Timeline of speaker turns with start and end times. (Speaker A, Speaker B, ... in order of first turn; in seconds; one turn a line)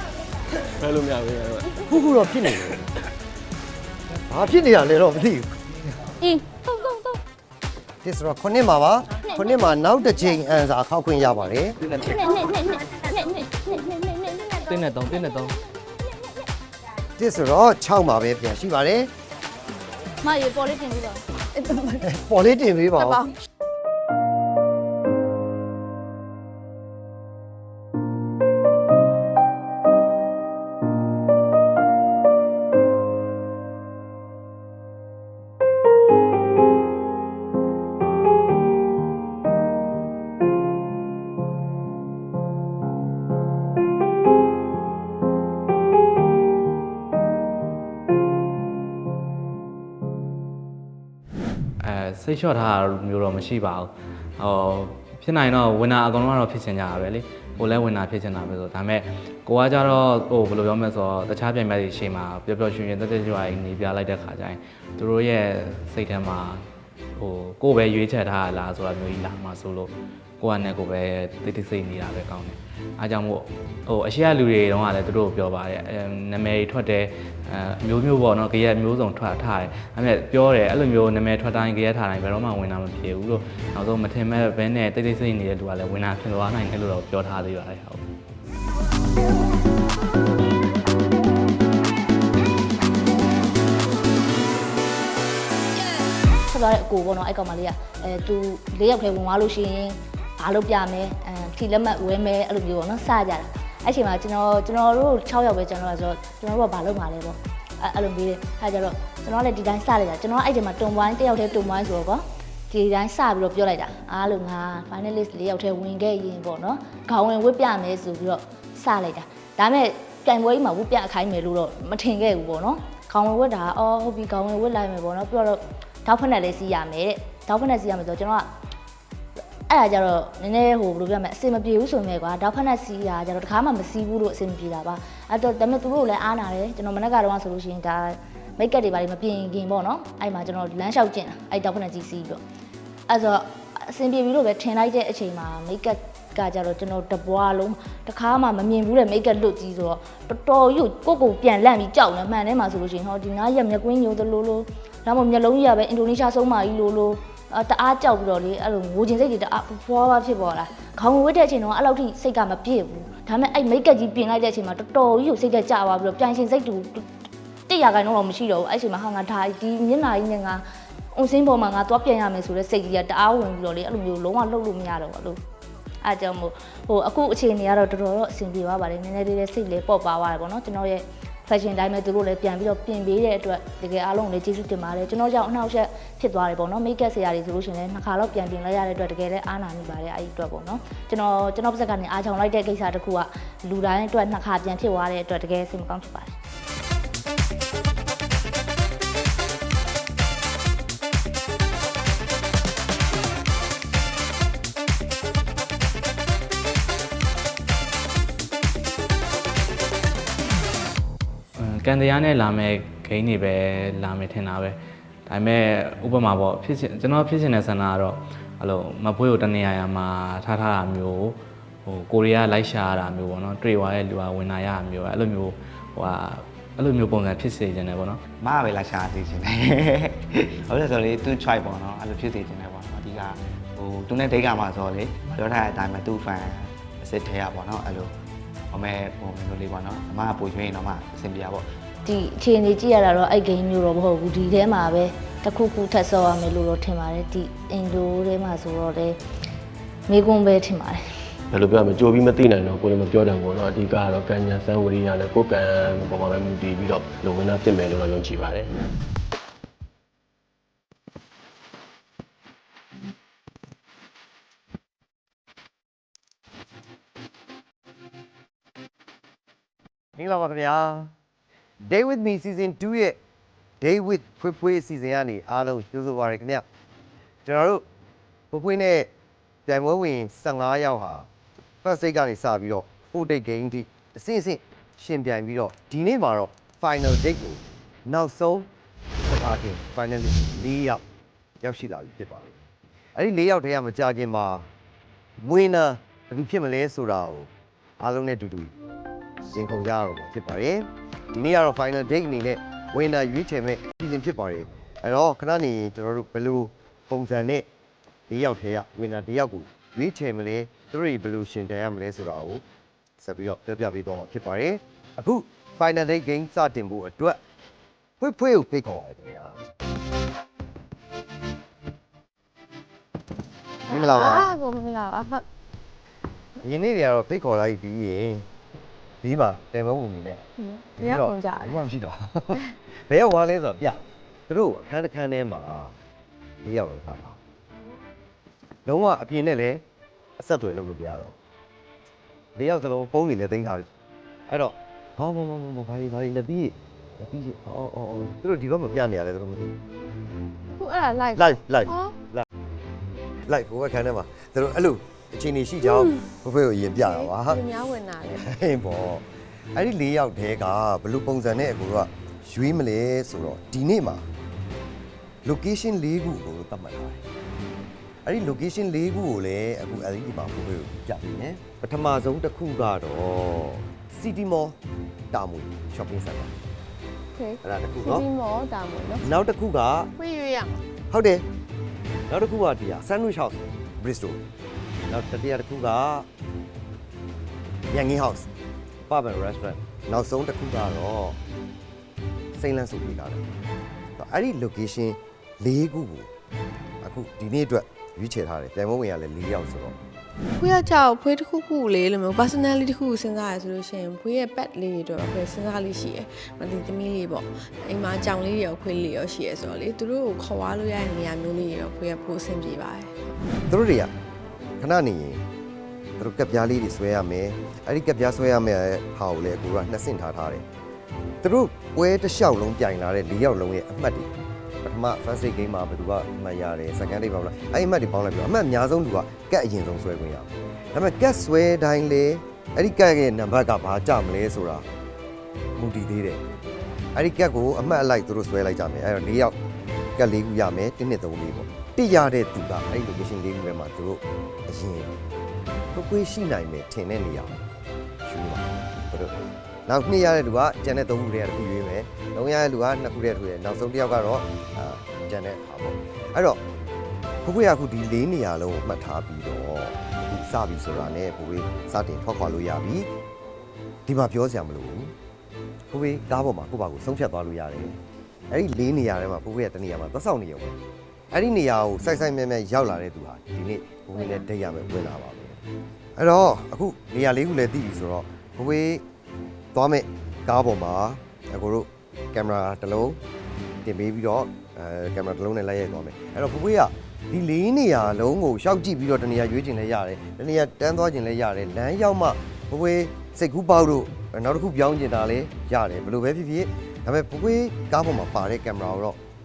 Speaker A: 0.7-1.9
Speaker B: 1.8-2.9
Speaker B: 4.3-6.2
Speaker C: 6.2-7.1
Speaker B: 8.0-11.8
Speaker C: 12.2-14.7
Speaker D: 14.7-15.5
Speaker B: 17.2-19.1
Speaker C: 20.2-21.2
Speaker E: 21.5-22.1
Speaker B: 22.0-23.3
Speaker E: 23.0-23.3
Speaker D: 51.8-88.0
Speaker C: 96.5-128.5
Speaker C: 129.7-142.4
Speaker C: 143.1-167.1
Speaker C: 167.7-170.6
Speaker C: 171.1-175.4
Speaker C: 176.0-196.3
Speaker D: 211.6-228.2
Speaker F: 228.4-238.1
Speaker F: 238.7-241.7
Speaker C: 242.0-249.2
Speaker C: 250.1-251.3
Speaker A: 251.5-258.7
Speaker B: 270.1-271.1
Speaker B: 271.8-273.2
Speaker B: 273.8-276.6
Speaker B: 277.4-277.8
Speaker B: 278.5-279.1
Speaker B: 279.7-281.3
Speaker B: 281.8-288.7
Speaker B: 289.3-291.0
Speaker B: 291.6-292.6
Speaker B: 293.1-294.7
Speaker B: 295.4-298.7
Speaker B: 299.5-307.7
Speaker B: 308.3-312.6
Speaker B: 313.2-317.4
Speaker B: 318.2-319.6
Speaker B: 323.9-324.5
Speaker E: 323.9-325.4
Speaker B: 326.6-328.4
Speaker B: 329.2-330.4
Speaker E: 330.6-331.8
Speaker B: 331.0-335.9
Speaker B: 336.6-337.4
Speaker B: 338.9-339.8
Speaker B: 340.4-341.3
Speaker B: 342.6-343.9
Speaker B: 344.5-349.7
Speaker E: 350.8-352.1
Speaker B: 351.3-352.5
Speaker B: 353.5-357.6
Speaker E: 355.9-356.2
Speaker E: 357.0-358.4
Speaker B: 358.4-364.2
Speaker B: 365.4-367.2
Speaker B: 368.2-374.8
Speaker B: 375.3-376.5
Speaker E: 377.3-379.3
Speaker B: 377.6-378.2
Speaker B: 379.2-380.1
Speaker E: 380.2-380.8
Speaker B: 381.1-381.4
Speaker B: 382.3-384.4
Speaker B: 385.1-386.3
Speaker B: 387.9-388.5
Speaker B: 389.1-391.4
Speaker B: 392.5-393.4
Speaker B: 394.2-396.3
Speaker B: 397.0-400.0
Speaker E: 400.6-413.1
Speaker B: 413.7-414.1
Speaker B: 414.8-415.4
Speaker B: 416.2-420.6
Speaker B: 421.4-424.3
Speaker B: 424.8-434.9
Speaker B: 435.8-436.4
Speaker B: 437.1-439.6
Speaker B: 440.2-445.1
Speaker B: 445.9-447.6
Speaker B: 448.2-449.3
Speaker B: 449.9-456.6
Speaker B: 457.4-463.1
Speaker B: 464.1-465.1
Speaker B: 465.9-468.0
Speaker B: 468.5-470.8
Speaker B: 471.3-475.6
Speaker B: 476.2-479.0
Speaker B: 479.7-483.2
Speaker B: 483.8-499.2